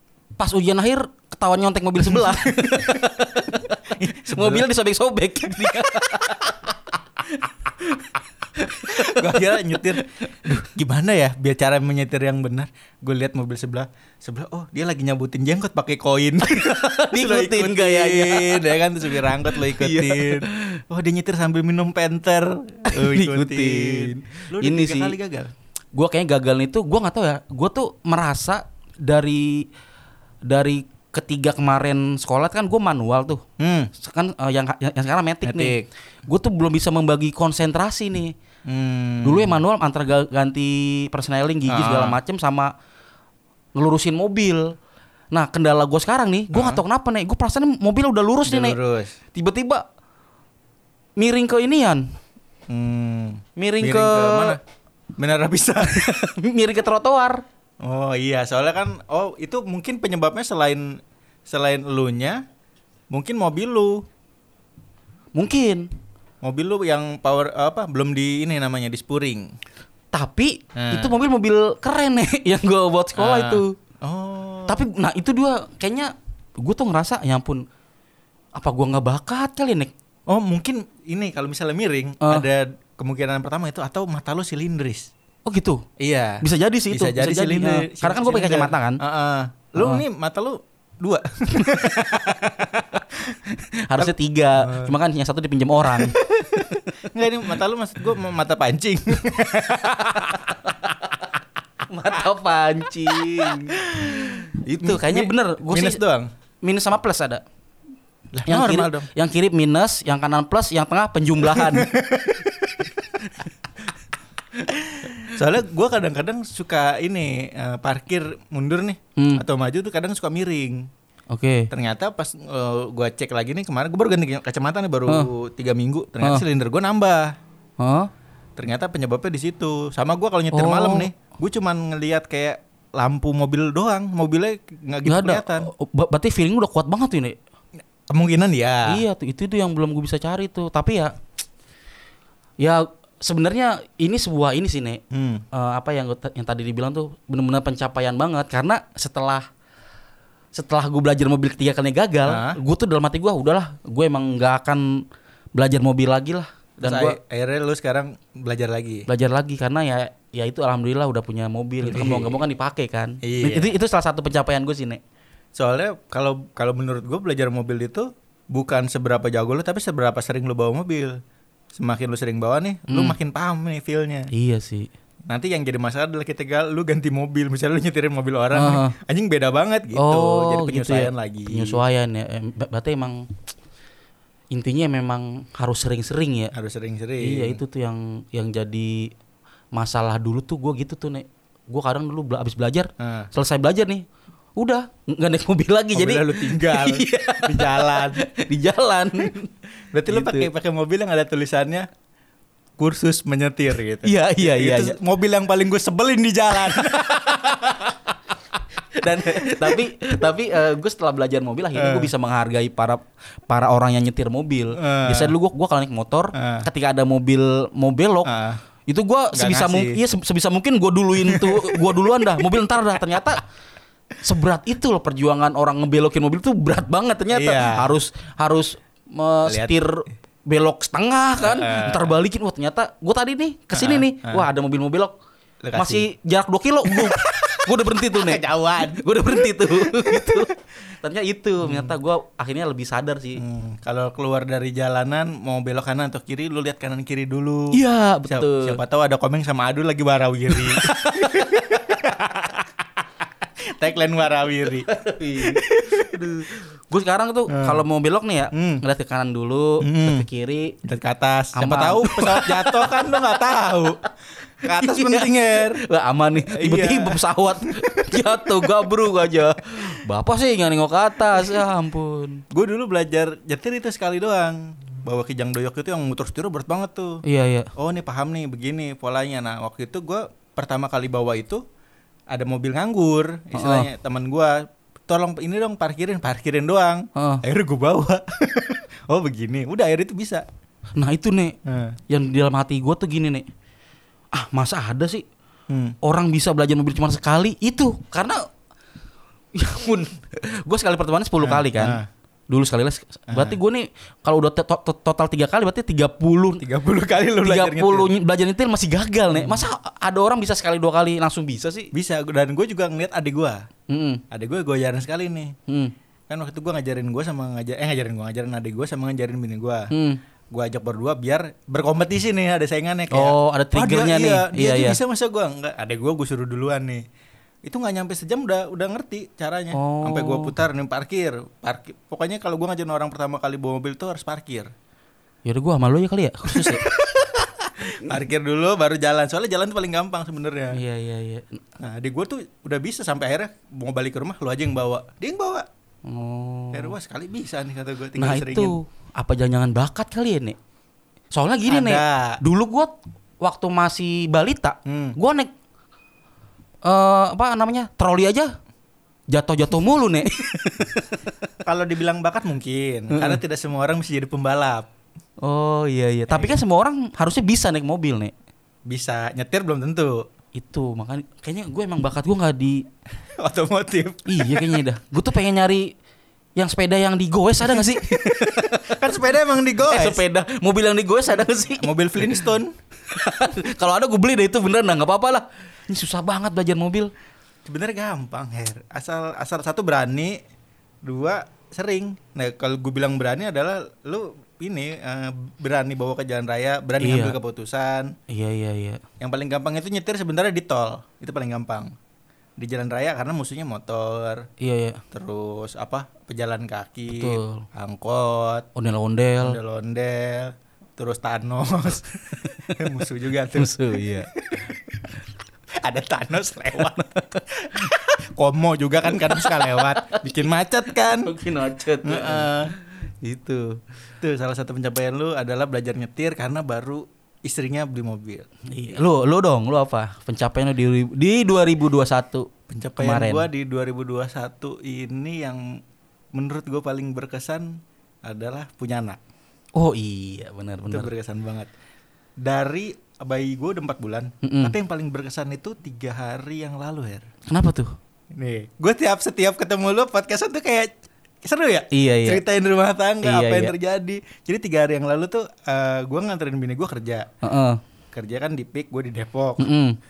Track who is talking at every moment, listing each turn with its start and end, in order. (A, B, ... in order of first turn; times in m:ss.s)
0:00.4-0:03.8 A
0:02.1-0:03.1 B
0:03.9-0:04.7 B
0:04.3-0:06.7 A
0:05.6-0:06.5 B
0:07.4-0:08.2 A
0:08.8-0:10.0 A
0:08.8-0:25.5 B
0:16.6-0:20.8 A
0:22.9-0:25.2 A
0:25.9-0:29.7 A
0:30.4-0:33.4 A
0:33.6-0:33.9 B
0:34.0-0:38.3 A
0:35.4-0:35.8 B
0:38.7-0:39.6 B
0:39.2-0:42.7 A
0:41.7-0:42.2 B
0:43.8-0:44.8 A
0:45.3-0:48.8 A
0:46.5-0:46.8 B
0:48.5-0:49.2 B
0:49.3-0:49.9 A
0:51.2-0:52.1 A
0:52.7-0:54.6 B
0:53.6-0:54.6 A
0:55.2-0:56.1 B
0:55.8-0:57.4 A
0:57.8-1:02.4 B
1:03.1-1:04.0 B
1:05.4-1:05.9 A
1:06.4-1:09.5 B
1:10.1-1:13.7 A
1:10.8-1:11.1 B
1:13.2-1:14.8 B
1:14.7-1:17.6 A
1:18.6-1:19.9 A
1:20.3-1:25.1 B
1:22.2-1:22.5 A
1:25.5-1:25.8 A
1:26.0-1:33.3 B
1:26.4-1:29.0 A
1:29.8-1:30.0 A
1:31.5-1:32.4 A
1:33.4-1:36.2 A
1:34.0-1:34.9 B
1:35.9-1:40.6 B
1:39.8-1:40.9 A
1:41.9-1:46.0 A
1:43.1-1:46.3 B
1:46.6-1:47.4 A
1:48.3-1:49.1 B
1:48.5-1:52.0 A
1:51.4-1:53.0 B
1:54.7-2:00.9 B
1:59.2-1:59.4 A
2:01.3-2:01.7 A
2:01.7-2:07.4 B
2:07.8-2:08.1 A
2:08.6-2:15.7 B
2:10.5-2:11.1 A
2:15.0-2:17.4 A
2:18.1-2:19.0 B
2:18.9-2:21.2 A
2:22.6-2:29.5 A
2:25.1-2:25.4 B
2:30.5-2:37.2 A
2:32.3-2:32.6 B
2:36.8-2:39.1 B
2:39.1-2:45.0 A
2:41.8-2:42.4 B
2:43.2-2:43.7 B
2:45.6-2:51.2 B
2:51.8-2:54.3 B
2:52.9-2:53.2 A
2:54.3-2:54.9 A
2:55.3-3:01.8 B
2:58.5-2:58.9 A
2:59.9-3:03.3 A
3:04.5-3:06.5 A
3:06.5-3:07.6 B
3:07.2-3:09.1 A
3:09.8-3:14.0 A
3:13.0-3:13.3 B
3:14.6-3:19.5 A
3:15.9-3:18.3 B
3:19.9-3:21.9 B
3:20.1-3:20.5 A
3:22.8-3:27.6 B
3:24.0-3:25.0 A
3:26.8-3:27.9 A
3:28.9-3:38.3 A
3:29.2-3:29.8 B
3:31.8-3:32.1 B
3:34.8-3:35.3 B
3:36.4-3:36.7 B
3:38.2-3:38.6 B
3:38.9-3:43.4 A
3:39.3-3:40.0 B
3:41.2-3:42.4 B
3:44.2-3:55.1 A
3:47.3-3:47.9 B
3:49.5-3:49.8 B
3:51.4-3:52.2 B
3:53.7-3:54.5 B
3:55.6-3:56.1 B
3:55.7-4:03.4 A
3:56.8-4:00.5 B
4:01.6-4:02.0 B
4:03.4-4:12.8 B
4:07.7-4:08.8 A
4:10.6-4:12.1 A
4:13.6-4:16.4 B
4:14.9-4:20.8 A
4:17.5-4:17.8 B
4:18.5-4:18.8 B
4:19.8-4:20.3 B
4:20.8-4:24.0 B
4:21.6-4:23.4 A
4:24.6-4:25.8 B
4:24.6-4:32.4 A
4:26.5-4:28.9 B
4:31.3-4:31.7 B
4:32.5-4:37.2 B
4:37.2-4:37.7 A
4:37.8-4:41.6 B
4:42.3-4:50.4 B
4:43.5-4:43.9 A
4:47.2-4:47.4 A
4:51.0-4:51.6 A
4:51.6-4:52.0 B
4:52.1-4:53.5 A
4:54.3-4:55.2 A
4:55.7-4:56.0 B
4:56.0-4:58.5 A
4:59.6-5:06.6 A
5:01.4-5:02.1 B
5:03.3-5:03.6 B
5:06.6-5:08.1 B
5:07.4-5:11.9 A
5:09.4-5:09.7 B
5:11.9-5:13.7 B
5:13.9-5:14.2 A
5:14.3-5:15.6 B
5:15.7-5:15.9 A
5:16.3-5:19.9 B
5:19.9-5:20.2 A
5:20.5-5:27.0 B
5:23.1-5:25.0 A
5:27.6-5:34.7 B
5:29.7-5:30.5 A
5:35.4-5:36.9 A
5:36.5-5:40.8 B
5:40.7-5:41.6 A
5:41.8-5:45.7 B
5:46.0-5:46.9 A
5:46.7-5:48.8 B
5:48.2-5:50.6 A
5:51.3-5:55.5 A
5:51.7-5:52.4 B
5:54.8-5:55.2 B
5:56.8-5:58.6 A
5:59.3-6:01.3 A
6:01.6-6:04.9 B
6:03.1-6:03.4 A
6:05.4-6:08.3 A
6:06.3-6:06.6 B
6:08.9-6:10.3 B
6:10.6-6:12.9 A
6:13.4-6:14.8 B
6:14.3-6:15.9 A
6:16.6-6:19.0 A
6:17.6-6:20.2 B
6:19.9-6:22.4 A
6:21.3-6:22.7 B
6:23.1-6:27.1 A
6:27.6-6:30.4 B
6:31.0-6:38.2 B
6:37.0-6:37.4 A
6:38.3-6:39.0 A
6:39.2-6:41.9 B
6:42.6-6:44.5 B
6:44.6-6:45.0 A
6:45.1-6:48.7 B
6:47.1-6:47.6 A
6:48.8-6:49.6 A
6:49.4-6:55.1 B
6:52.4-6:52.8 A
6:53.5-6:54.3 A
6:55.8-7:01.3 B
6:57.0-6:57.8 A
6:59.2-7:00.2 A
7:01.2-7:03.8 A
7:02.0-7:02.7 B
7:04.2-7:08.5 B
7:08.7-7:13.5 A
7:12.7-7:15.8 B
7:16.3-7:19.2 B
7:19.8-7:21.1 A
7:20.9-7:21.7 B
7:22.4-7:27.3 B
7:24.4-7:24.8 A
7:27.5-7:27.9 A
7:28.3-7:30.9 B
7:31.4-7:37.3 B
7:31.9-7:32.4 A
7:33.2-7:33.7 A
7:37.4-7:37.8 A
7:38.1-7:39.7 B
7:39.6-7:40.0 A